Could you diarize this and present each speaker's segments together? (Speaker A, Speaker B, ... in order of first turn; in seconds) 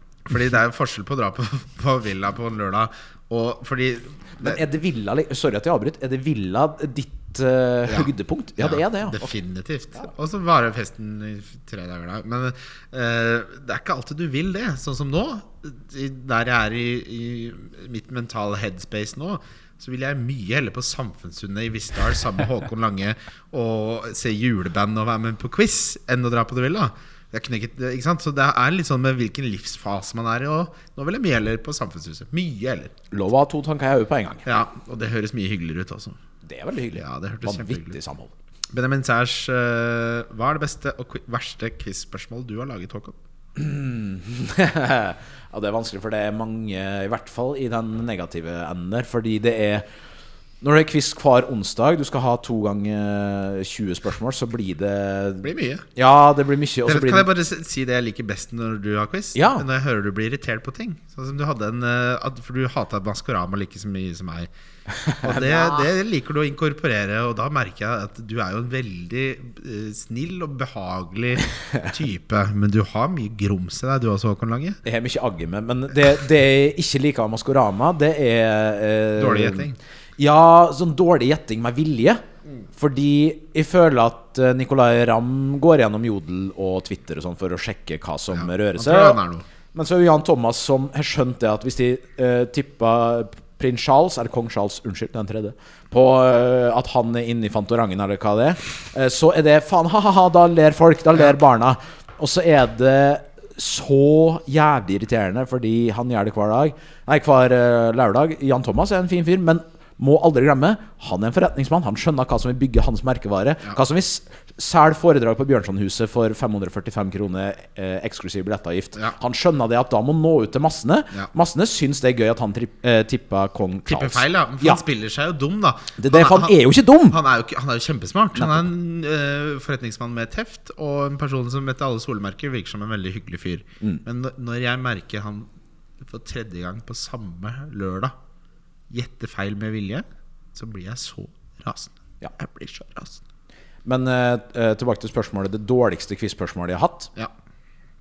Speaker A: 0.2-4.6, 7.9-32.9, 34.4-36.2, 36.9-38.0, 38.7-43.1, 55.4-55.8, 56.8-64.5, 65.2-74.8, 79.2-79.8, 88.3-89.4, 123.8-135.5, 136.0-138.1, 138.9-143.2
Speaker B: 4.4-9.3, 33.1-34.5, 36.4-38.3, 43.5-49.9, 50.6-57.3, 59.3-59.6, 65.0-65.9, 74.8-82.2, 82.7-89.2, 89.7-124.8, 126.0-127.2, 128.4-128.6, 143.8-147.1